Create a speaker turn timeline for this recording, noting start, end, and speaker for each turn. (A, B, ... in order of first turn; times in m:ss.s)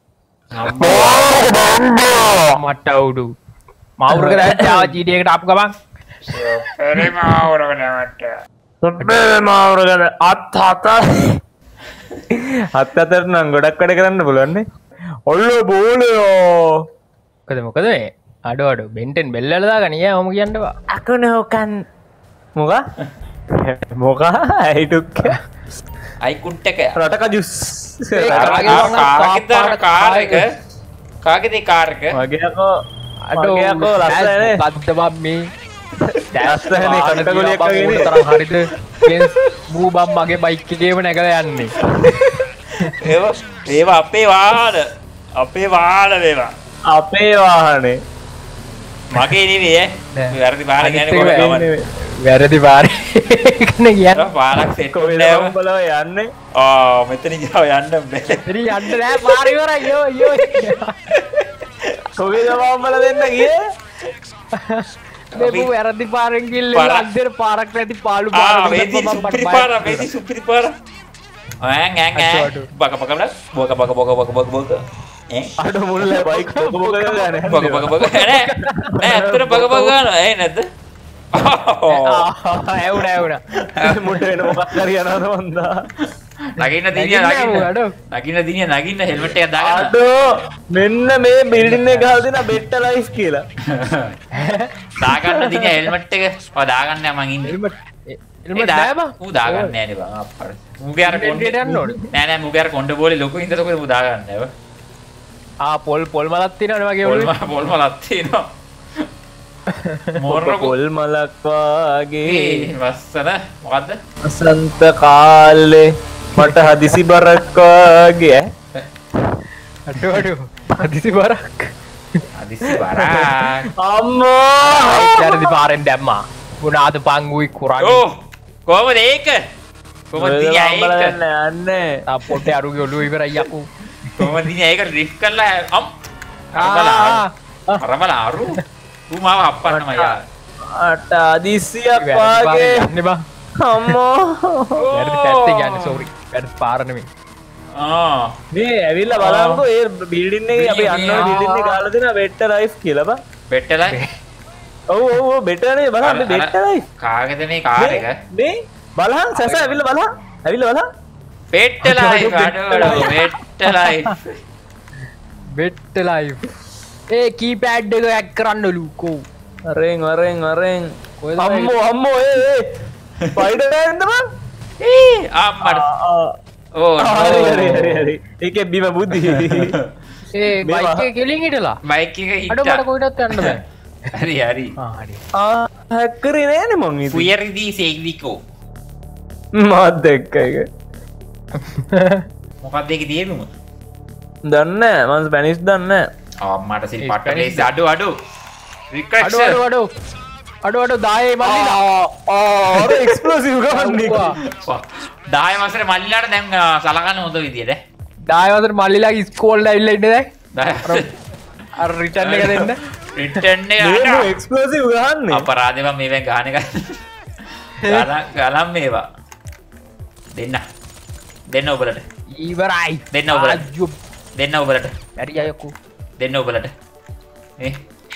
0:00.5-0:01.7 A
0:00.8-0:01.5 B
0:02.4-0:03.3 B
0:04.0-0:05.7 B
0:04.1-0:05.0 C
0:06.2-0:08.3 A
0:08.8-0:11.4 C
0:12.3-0:14.6 C
0:15.3-0:16.8 C
0:17.5-0:20.7 B
0:20.9-0:21.8 C
0:22.6-0:22.8 C
0:23.5-0:25.4 C
0:26.2-0:27.0 A
0:26.9-0:29.0 C
0:28.1-0:30.5 B
0:28.3-0:30.4 A
0:31.2-0:32.2 A
0:32.1-0:32.7 C
0:33.2-0:35.4 B
0:33.3-0:34.6 C
0:36.3-0:42.1 B
0:36.4-0:38.1 C
0:41.8-0:46.5 A
0:46.9-0:48.0 C
0:49.1-0:51.7 A
0:50.1-0:54.3 B
0:51.1-0:51.8 C
0:54.1-0:55.5 A
0:54.9-0:56.3 C
0:56.6-0:59.5 A
0:58.5-1:01.0 B
1:00.2-1:02.6 A
1:02.2-1:03.6 C
1:04.6-1:10.0 B
1:05.3-1:05.7 A
1:06.7-1:07.1 A
1:08.3-1:10.8 A
1:11.6-1:15.5 A
1:12.2-1:12.7 B
1:15.6-1:18.1 C
1:16.2-1:17.4 B
1:17.5-1:20.7 A
1:18.0-1:19.0 B
1:18.9-1:19.9 C
1:21.3-1:22.2 A
1:21.9-1:23.4 B
1:23.7-1:24.7 A
1:23.8-1:25.9 C
1:26.4-1:29.9 A
1:26.9-1:27.9 B
1:29.6-1:33.4 C
1:31.6-1:32.2 B
1:33.7-1:34.1 A
1:34.3-1:35.8 B
1:35.0-1:37.6 A
1:37.5-1:39.7 B
1:38.6-1:44.5 A
1:41.0-1:42.0 B
1:45.6-1:47.3 B
1:47.0-1:49.1 A
1:49.7-1:50.2 B
1:50.1-1:50.7 A
1:50.3-1:52.7 C
1:52.2-1:54.0 A
1:54.2-1:58.5 C
1:59.9-2:01.7 B
2:02.3-2:03.7 A
2:02.7-2:05.6 C
2:04.6-2:08.0 B
2:07.8-2:09.4 A
2:10.1-2:11.1 A
2:10.1-2:12.0 C
2:12.1-2:13.7 B
2:14.0-2:15.9 A
2:16.5-2:17.2 A
2:16.6-2:17.8 B
2:17.8-2:20.2 A
2:19.7-2:22.9 C
2:22.0-2:23.2 B
2:23.6-2:24.8 C
2:24.8-2:26.0 A
2:24.9-2:27.1 B
2:27.7-2:28.4 A
2:28.5-2:33.2 C
2:29.1-2:29.6 A
2:30.5-2:31.4 A
2:31.2-2:31.8 B
2:33.5-2:34.0 A
2:34.9-2:36.8 C
2:36.0-2:38.2 A
2:37.8-2:40.9 C
2:39.3-2:39.7 B
2:41.5-2:44.4 A
2:41.8-2:44.2 B
2:45.5-2:46.4 B
2:47.1-2:49.2 B
2:49.7-2:52.8 C
2:51.2-2:51.8 B
2:53.3-2:54.2 C
2:54.8-2:55.8 A
2:55.6-2:56.3 C
2:56.8-2:58.1 A
2:57.0-2:59.8 C
2:59.2-2:59.8 A
3:00.3-3:01.8 B
3:00.6-3:01.1 C
3:01.8-3:04.7 A
3:02.5-3:03.6 B
3:04.8-3:05.2 B
3:05.4-3:07.3 C
3:07.1-3:08.4 A
3:09.6-3:10.7 C
3:11.6-3:12.2 B
3:12.6-3:13.5 A
3:14.5-3:16.0 C
3:16.4-3:18.1 A
3:17.0-3:17.7 B
3:18.9-3:19.6 A
3:19.2-3:19.9 B
3:20.6-3:21.8 B
3:21.4-3:24.3 C
3:22.7-3:23.0 A
3:23.7-3:24.4 B
3:24.4-3:27.8 A
3:28.3-3:30.3 B
3:30.5-3:31.1 A
3:31.8-3:32.8 B
3:32.2-3:34.3 A
3:33.8-3:35.5 C
3:35.3-3:37.0 A
3:37.8-3:39.0 A
3:40.3-3:40.6 A
3:41.5-3:42.0 A
3:42.3-3:43.9 B
3:43.1-3:43.6 A
3:44.4-3:44.9 A
3:45.2-3:45.7 B
3:46.2-3:46.7 A